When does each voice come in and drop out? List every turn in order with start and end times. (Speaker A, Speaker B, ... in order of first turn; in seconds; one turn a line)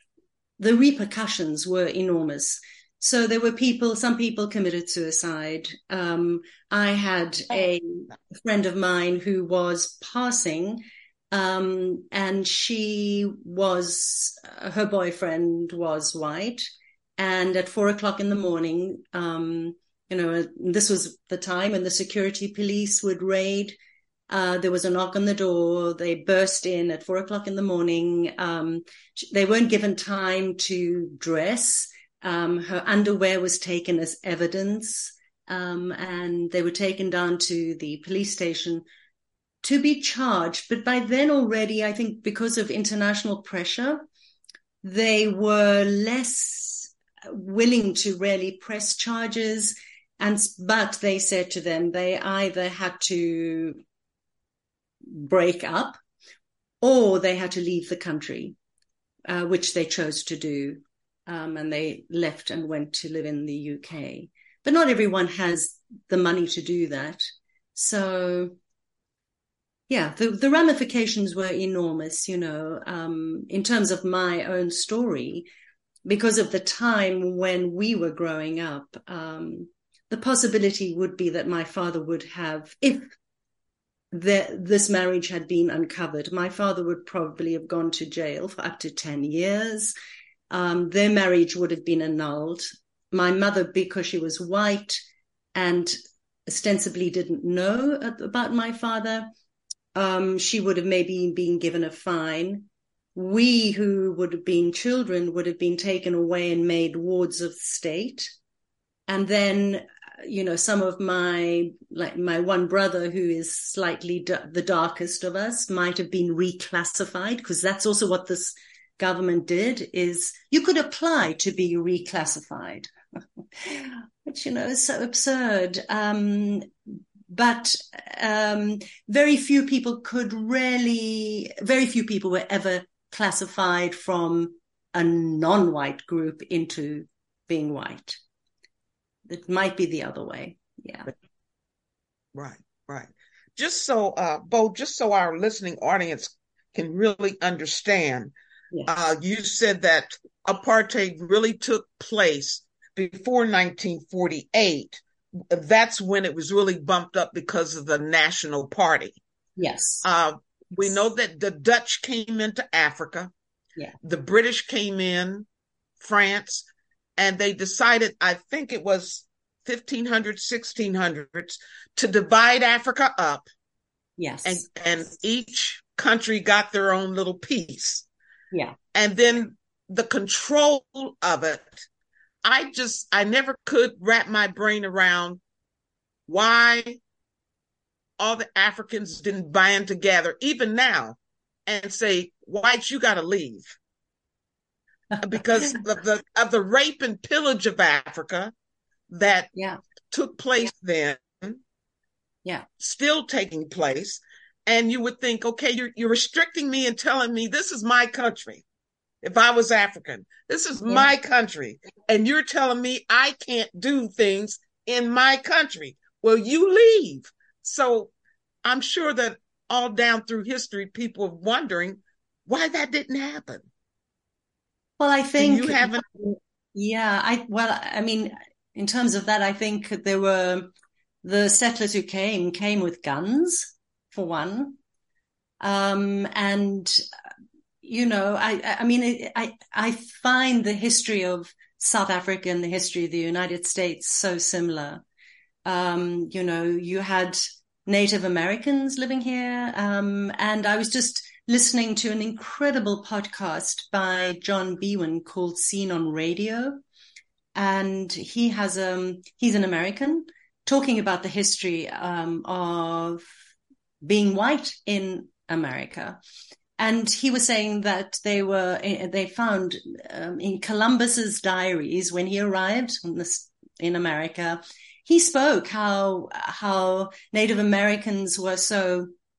Speaker A: 0.6-23.8
Speaker A: 24.3-38.8
Speaker A: 39.6-44.0
Speaker A: 44.8-53.8
Speaker A: 55.1-56.0
Speaker A: 56.8-58.6
Speaker A: 59.3-68.6
Speaker A: 69.9-75.5
Speaker A: 76.0-83.1
Speaker A: 84.1-89.9
Speaker A: 90.5-95.0
Speaker A: 95.5-99.3
Speaker A: 100.0-108.3
Speaker A: 109.1-122.9
Speaker A: 123.6-126.7
Speaker A: 127.3-138.2
Speaker A: 139.3-141.1
Speaker B: 142.3-148.3
Speaker B: 148.9-159.2
Speaker A: 159.6-160.1
Speaker B: 160.0-163.3
Speaker B: 164.0-165.5
Speaker B: 166.0-166.7
Speaker B: 167.2-173.5
Speaker A: 174.2-174.7
Speaker B: 174.4-178.1
Speaker B: 178.9-181.9
Speaker B: 182.4-185.4
Speaker B: 186.3-187.0
Speaker B: 188.2-193.8
Speaker B: 195.2-198.5
Speaker B: 199.1-199.5
Speaker A: 199.5-199.8
Speaker B: 200.1-201.6
Speaker B: 202.8-208.6
Speaker B: 209.2-218.1
Speaker B: 218.6-223.6
Speaker A: 225.0-230.7
Speaker B: 225.4-226.1
Speaker A: 231.2-234.8
Speaker A: 235.6-237.0
Speaker A: 237.8-245.0
Speaker A: 245.6-256.8
Speaker A: 257.6-263.2
Speaker A: 264.0-266.2
Speaker A: 266.8-279.1